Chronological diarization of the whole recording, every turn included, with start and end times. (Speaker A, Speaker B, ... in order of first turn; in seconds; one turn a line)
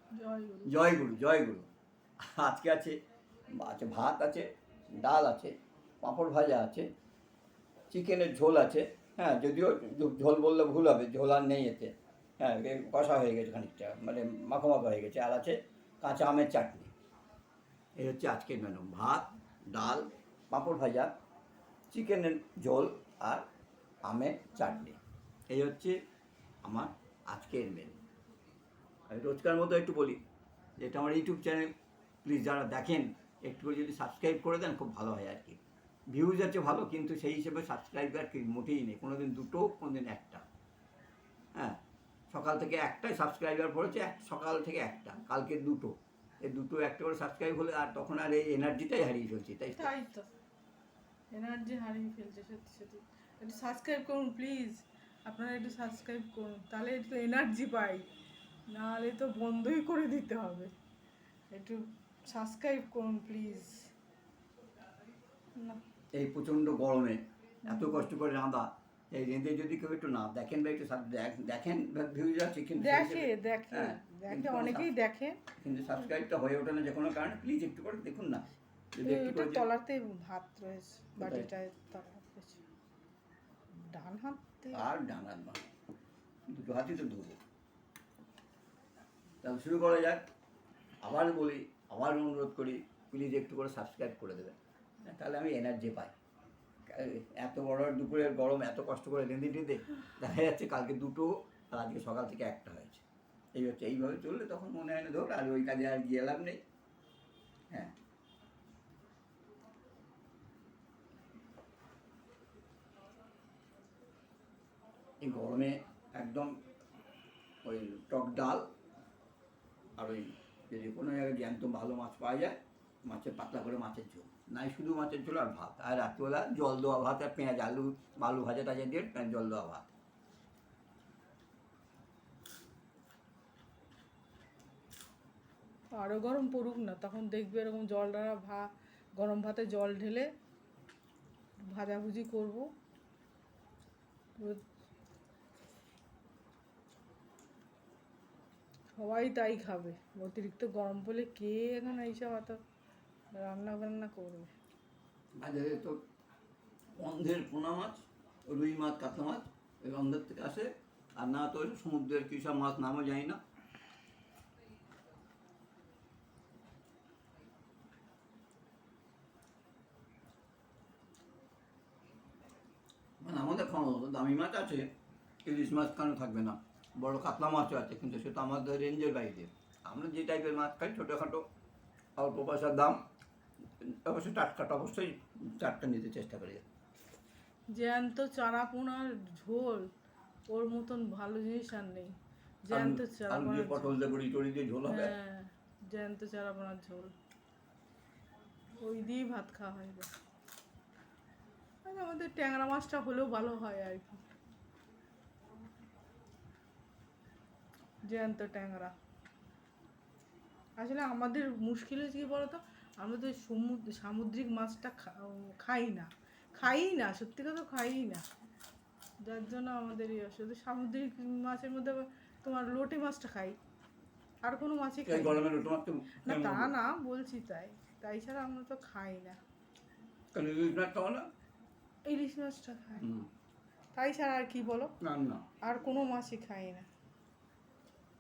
Speaker A: 0.1-0.8
Speaker B: 0.7-1.7
Speaker B: 2.2-3.0
Speaker B: 3.5-6.9
Speaker B: 7.9-16.9
Speaker B: 18.0-21.1
Speaker B: 21.9-23.5
Speaker B: 24.1-26.0
Speaker B: 26.6-28.0
Speaker B: 29.1-30.2
Speaker B: 30.8-31.7
Speaker B: 32.2-35.6
Speaker B: 36.1-40.4
Speaker B: 42.3-49.9
Speaker A: 49.8-50.3
Speaker A: 51.3-58.1
Speaker A: 58.7-60.7
Speaker A: 61.5-63.9
Speaker A: 65.6-65.8
Speaker B: 66.1-74.9
Speaker A: 67.7-68.1
Speaker A: 72.8-75.4
Speaker B: 75.5-79.7
Speaker A: 79.0-82.6
Speaker B: 81.2-81.5
Speaker A: 83.9-84.8
Speaker B: 84.7-85.6
Speaker B: 86.5-87.4
Speaker B: 89.4-90.2
Speaker B: 91.0-96.1
Speaker B: 96.9-103.0
Speaker B: 103.5-106.6
Speaker B: 115.2-116.5
Speaker B: 117.6-118.7
Speaker B: 120.0-129.9
Speaker A: 136.0-140.3
Speaker A: 141.7-142.7
Speaker A: 144.4-144.6
Speaker A: 149.0-152.6
Speaker A: 153.3-154.5
Speaker B: 155.4-156.0
Speaker B: 157.0-163.4
Speaker B: 173.2-174.9
Speaker B: 175.4-181.4
Speaker B: 182.2-183.0
Speaker B: 183.8-186.7
Speaker A: 187.7-189.9
Speaker A: 190.5-194.0
Speaker B: 192.7-195.1
Speaker A: 194.9-197.1
Speaker A: 198.8-200.1
Speaker A: 201.8-204.2
Speaker A: 208.1-208.9
Speaker A: 210.8-218.2
Speaker A: 219.2-223.6
Speaker A: 224.4-225.5
Speaker B: 225.1-226.7
Speaker A: 226.2-229.4
Speaker B: 230.3-231.3
Speaker A: 232.1-233.1
Speaker B: 233.0-233.3
Speaker A: 233.9-234.9
Speaker B: 235.0-235.5
Speaker A: 235.6-236.9